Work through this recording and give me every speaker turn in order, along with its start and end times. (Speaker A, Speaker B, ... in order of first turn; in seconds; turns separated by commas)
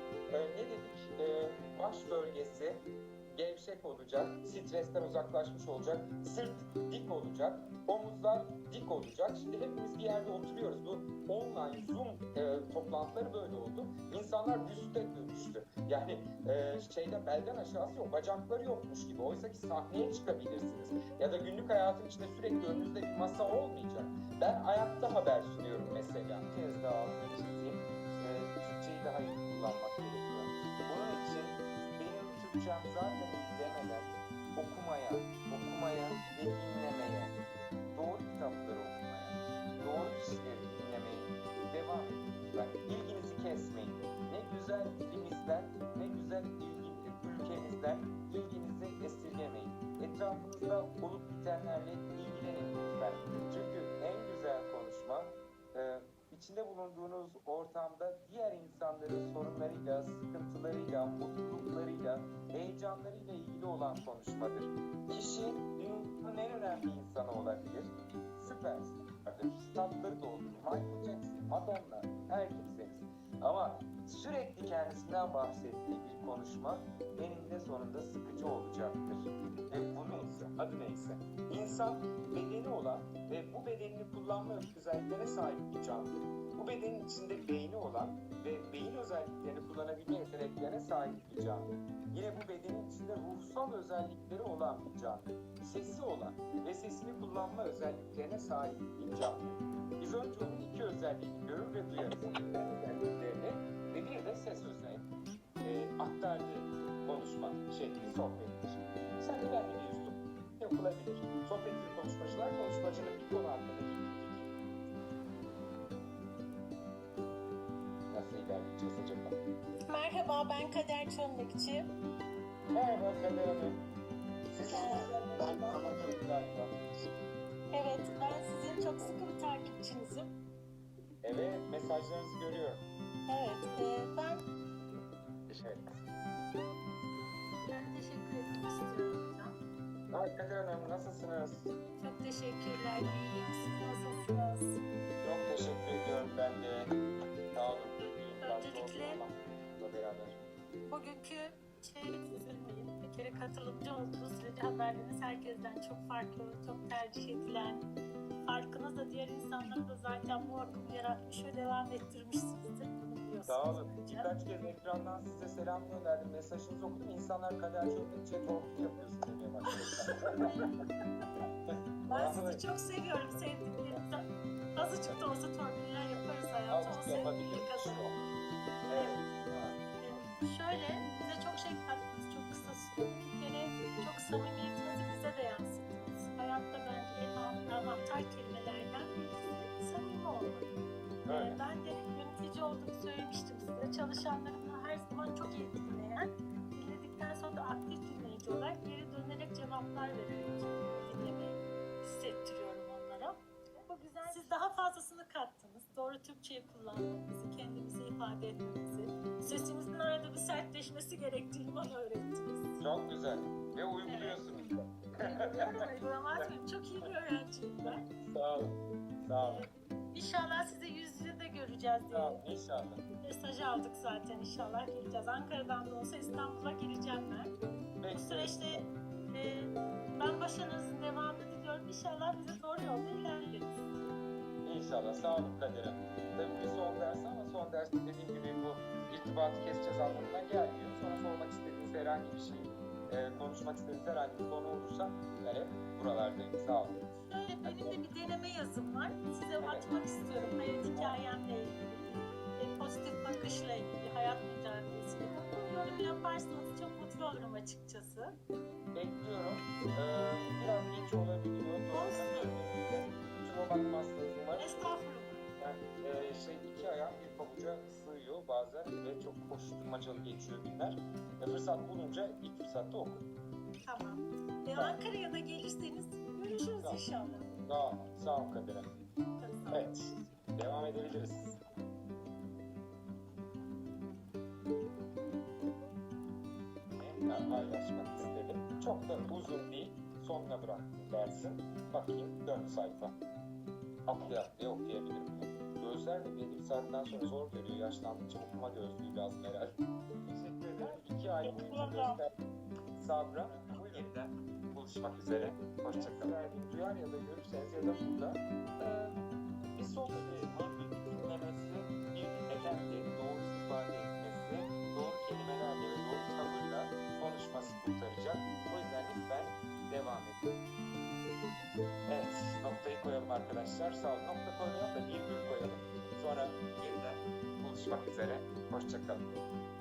Speaker A: 0.3-37.4, Speaker A: 37.9-105.1, Speaker A: 105.6-114.5, Speaker A: 118.1-119.4, Speaker B: 119.9-121.9, Speaker A: 122.7-123.9, Speaker A: 124.5-126.7, Speaker B: 124.7-125.1, Speaker B: 127.7-130.3, Speaker A: 131.2-132.8, Speaker B: 133.3-134.4, Speaker A: 135.5-136.0, Speaker B: 137.7-139.6, Speaker A: 140.1-141.7, Speaker B: 142.0-144.8, Speaker A: 145.2-146.9, Speaker A: 147.5-150.4, Speaker B: 147.9-149.2, Speaker B: 150.9-157.9, Speaker B: 158.5-164.3, Speaker A: 163.5-170.7, Speaker B: 172.1-178.3, Speaker A: 172.1-172.6, Speaker A: 176.7-178.2, Speaker A: 178.9-179.8, Speaker B: 178.9-179.4, Speaker B: 180.0-190.7, Speaker A: 191.3-191.6, Speaker B: 191.3-203.4, Speaker B: 203.9-212.8, Speaker A: 212.8-214.9, Speaker B: 214.1-214.4, Speaker B: 215.2-218.0, Speaker A: 217.8-219.7, Speaker B: 219.4-222.4, Speaker A: 222.1-223.0, Speaker B: 223.2-227.6, Speaker A: 228.0-228.9, Speaker B: 228.1-233.9, Speaker A: 234.7-247.0, Speaker B: 247.3-258.3, Speaker A: 247.6-248.0, Speaker A: 249.6-249.9, Speaker A: 258.9-264.9, Speaker B: 261.9-262.6, Speaker B: 264.6-265.5, Speaker A: 265.6-273.2, Speaker B: 273.9-277.5, Speaker A: 276.7-277.0, Speaker A: 277.7-278.9, Speaker B: 279.4-279.9, Speaker A: 279.7-281.6, Speaker A: 286.9-293.1, Speaker A: 294.1-299.7, Speaker A: 300.3-302.3, Speaker B: 301.4-302.2, Speaker A: 303.0-309.2, Speaker A: 309.8-320.5, Speaker A: 322.1-329.4